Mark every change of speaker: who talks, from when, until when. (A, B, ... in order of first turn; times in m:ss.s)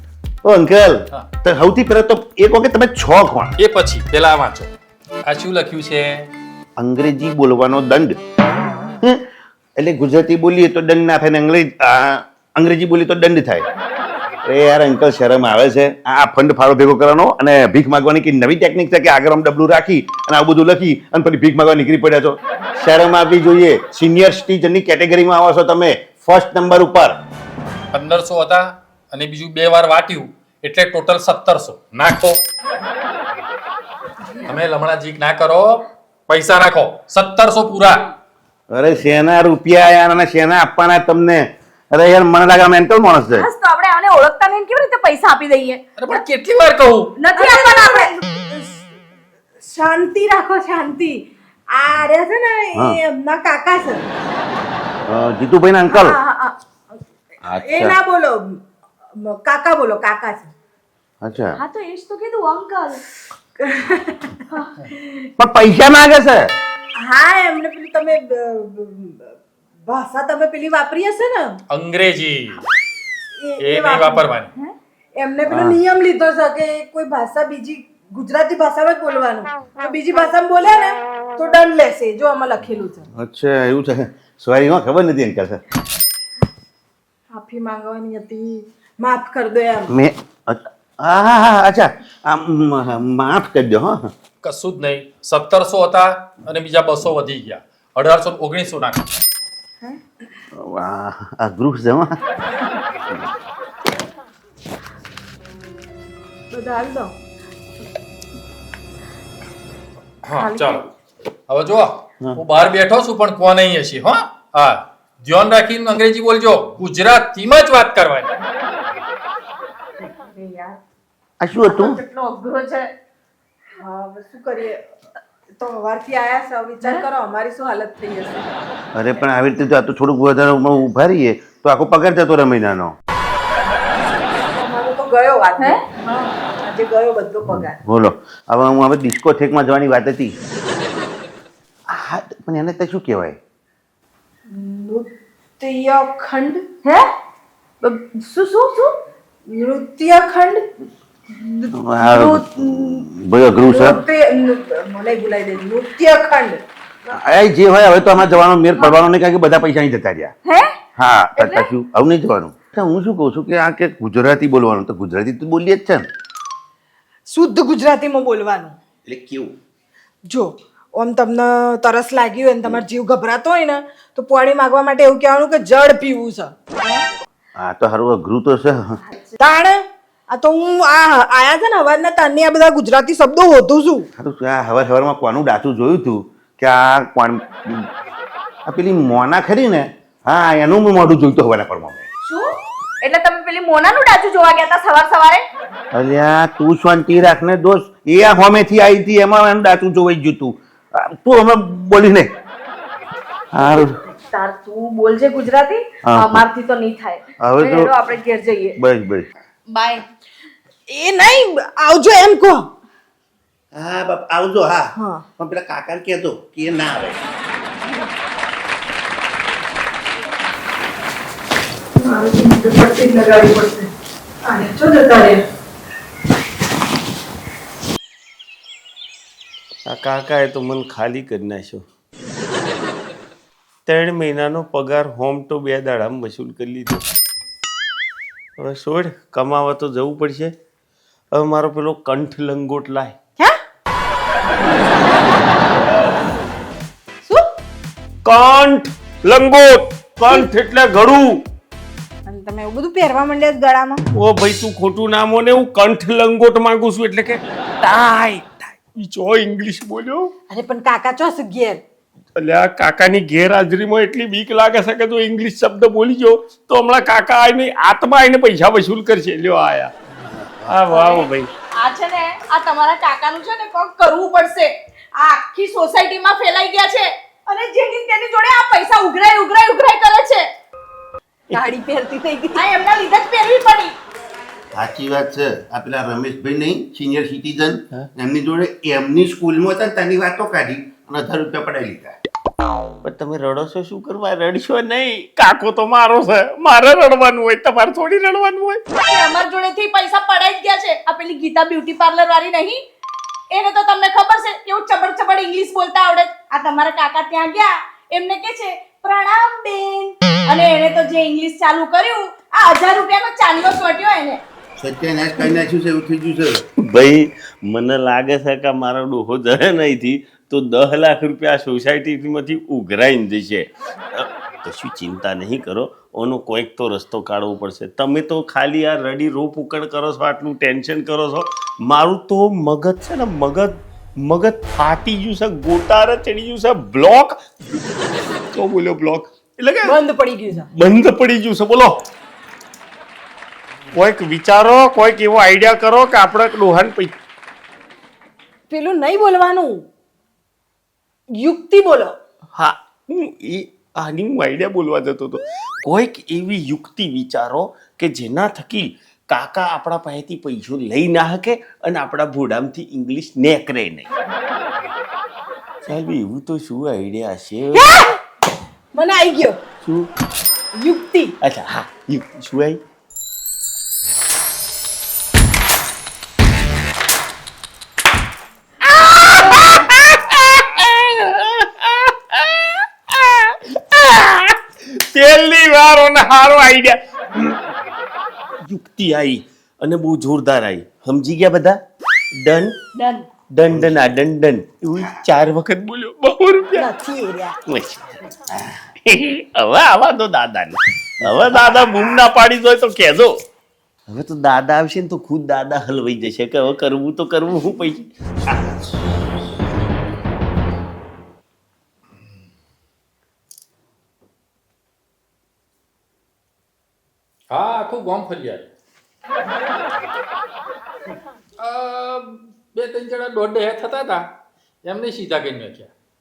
0:00.4-0:03.5 A
0:03.6-0:04.7 B
0:05.2-0:06.3 B
0:06.8-0:08.2 A
0:09.8-0:13.7 A
0:14.4-0:27.2 A
0:27.9-0:32.4 B
0:34.4-0:38.1 B
0:38.7-0:43.5 A
0:43.3-0:45.8 C
0:46.0-0:47.2 B
0:47.2-0:48.7 C
0:47.4-0:48.1 D
0:49.6-0:51.2 D
0:51.7-0:54.0 D
0:55.1-0:56.2 A
0:55.9-0:56.2 D
0:57.5-0:58.6 D
0:57.6-0:58.0 A
0:59.2-1:00.5 D
1:01.2-1:01.6 A
1:01.5-1:03.0 C
1:03.6-1:04.4 D
1:04.5-1:04.9 C
1:05.4-1:06.5 A
1:07.0-1:09.3 D
1:09.9-1:11.6 D
1:11.7-1:12.6 B
1:13.4-1:23.1 D
1:13.6-1:14.5 B
1:15.5-1:15.8 A
1:23.2-1:25.6 A
1:27.3-1:29.9 D
1:29.9-1:34.1 A
1:34.4-1:39.0 B
1:40.6-1:42.2 A
1:46.5-1:47.1 D
1:50.2-1:50.9 B
1:50.4-1:50.9 C
1:51.5-1:58.3 B
2:00.1-2:00.8 C
2:01.4-2:02.0 A
2:01.7-2:02.9 C
2:03.8-2:04.8 D
2:05.6-2:08.5 D
2:06.8-2:07.1 C
2:09.0-2:12.9 A
2:14.5-2:17.8 D
2:15.6-2:15.8 C
2:17.8-2:20.4 A
2:21.9-2:23.4 A
2:24.5-2:25.1 D
2:25.6-2:26.6 D
2:27.8-2:28.9 C
2:29.5-2:30.6 D
2:31.3-2:33.0 D
2:31.8-2:34.0 A
2:33.7-2:36.6 D
2:37.1-2:40.3 A
2:40.5-2:40.7 C
2:41.0-2:46.1 A
2:41.4-2:41.7 C
2:47.3-2:48.8 D
2:49.1-2:49.5 A
2:50.3-2:56.7 D
2:57.6-2:58.9 A
2:59.0-2:59.4 C
2:59.4-3:04.1 D
3:04.2-3:07.9 A
3:08.7-3:12.0 A
3:13.0-3:15.4 C
3:15.9-3:22.3 A
3:23.6-3:23.9 A
3:23.6-3:28.8 C
3:26.1-3:26.4 A
3:27.4-3:27.9 A
3:28.8-3:29.3 A
3:29.7-3:30.0 C
3:30.9-3:32.6 D
3:33.7-3:37.2 A
3:35.0-3:35.3 D
3:42.0-3:43.9 D
3:44.4-3:45.4 D
3:49.9-3:51.8 E
3:53.9-3:57.0 E
3:58.6-4:00.5 E
4:01.4-4:03.2 E
4:08.2-4:11.4 E
4:12.3-4:14.0 D
4:14.1-4:20.3 E
4:20.5-4:21.8 D
4:22.4-4:29.9 E
4:30.7-4:31.5 E
4:30.9-4:40.4 C
4:41.5-4:42.7 D
4:42.5-4:44.0 C
4:44.8-4:52.2 A
4:53.0-4:58.8 E
4:59.1-5:02.8 C
5:03.5-5:14.4 C
5:14.8-5:16.6 A
5:16.8-5:37.8 E
5:38.5-5:40.0 E
5:39.8-5:40.7 D
5:40.7-5:42.0 E
5:43.9-5:47.2 E
5:48.7-5:49.9 D
5:51.4-5:52.1 D
5:52.6-6:04.1 E
6:05.9-6:08.1 E
6:07.7-6:08.2 D
6:08.9-6:09.6 D
6:09.8-6:10.1 E
6:10.8-6:11.3 D
6:11.4-6:12.8 E
6:18.8-6:27.6 E
6:28.6-6:31.8 E
6:32.4-6:32.8 E
6:33.0-6:33.2 D
6:33.5-6:36.9 E
6:36.7-6:37.6 D
6:37.7-6:38.2 E
6:39.1-6:43.3 E
6:44.1-6:48.1 E
6:57.5-6:58.7 B
7:01.6-7:04.3 B
7:04.8-7:05.9 B